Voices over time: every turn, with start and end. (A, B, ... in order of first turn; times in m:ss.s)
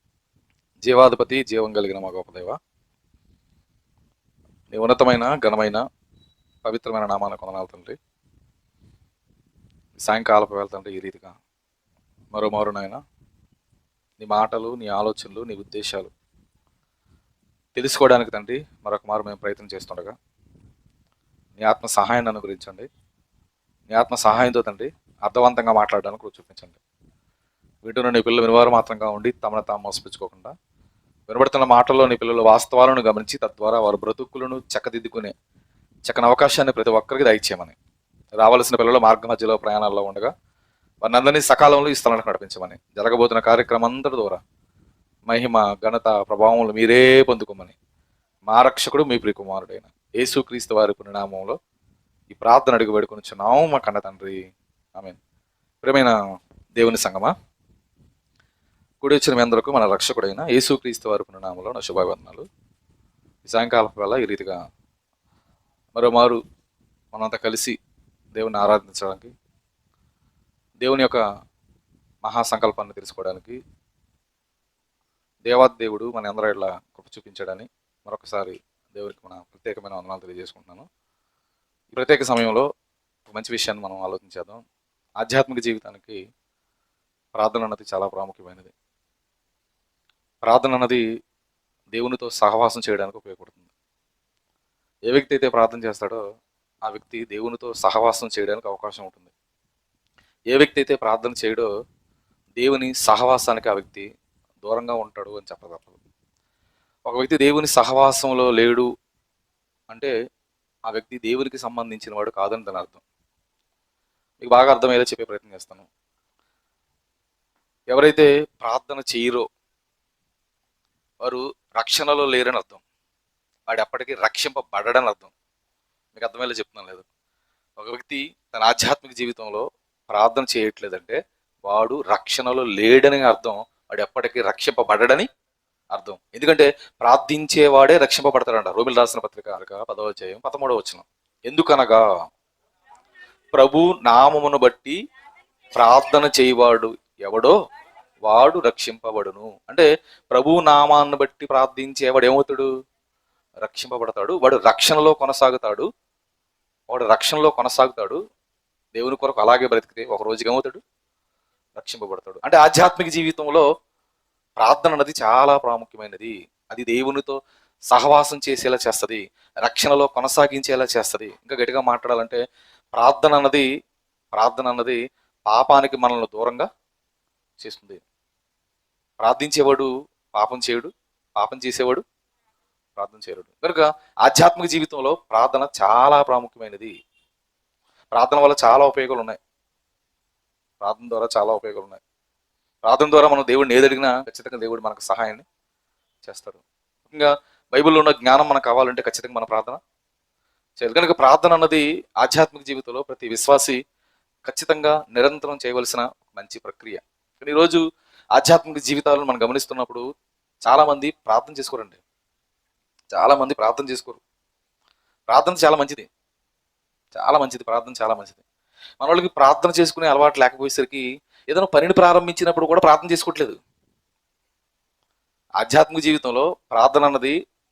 0:00.8-0:02.6 A
0:04.7-0:05.8 A
0:06.6-0:08.0 A
0:10.0-0:11.4 A
0:12.3-0:13.0 A
0:14.2-0:16.1 A
0:17.7-0:20.1 A
0:21.6-0:22.9 A
0:23.9-0:26.8 A
0:27.8-0:30.5 A
0:31.3-0:35.3 A
0:36.0-0:37.7 A
0:38.4-0:40.3 A
0:41.0-0:44.4 A
0:45.2-0:47.7 A
0:48.5-0:51.6 A
0:52.3-0:54.4 A
0:55.8-0:56.2 A
0:56.8-0:57.3 A
0:59.0-1:02.5 A
1:03.4-1:04.6 A
1:05.9-1:06.4 A
1:07.1-1:07.8 A
1:08.3-1:09.3 A
1:10.8-1:11.2 A
1:12.2-1:13.6 A
1:15.4-1:20.9 A
1:21.9-1:22.7 A
1:23.2-1:24.6 A
1:25.2-1:26.2 A
1:27.4-1:28.7 A
1:30.4-1:31.0 A
1:31.9-1:33.7 A
1:35.1-1:36.2 A
1:36.8-1:39.3 A
1:40.5-1:41.7 A
1:42.6-1:44.0 A
1:44.6-1:46.0 A
1:47.1-1:48.9 A
1:50.9-1:53.0 A
1:54.4-1:55.9 A
1:57.9-1:59.5 A
2:01.2-2:02.8 A
2:03.7-2:05.3 A
2:06.1-2:07.0 A
2:07.8-2:15.3 A
2:15.9-2:22.0 A
2:23.5-2:25.0 A
2:25.7-2:27.5 A
2:28.2-2:32.7 A
2:33.6-2:35.9 A
2:36.9-2:38.2 A
2:38.9-2:40.8 A
2:41.8-2:43.7 A
2:44.6-2:47.4 A
2:47.9-2:52.4 A
2:52.9-2:53.6 A
2:54.3-2:56.7 A
2:57.6-2:58.0 A
2:59.2-3:02.0 A
3:03.0-3:06.9 A
3:08.1-3:09.4 A
3:10.8-3:12.0 A
3:12.8-3:15.4 A
3:16.2-3:19.8 A
3:20.8-3:23.8 A
3:24.4-3:27.8 A
3:28.4-3:30.0 A
3:30.6-3:32.0 A
3:33.1-3:34.2 A
3:35.3-3:36.1 A
3:37.1-3:38.4 A
3:39.0-3:43.6 A
3:45.6-3:47.3 A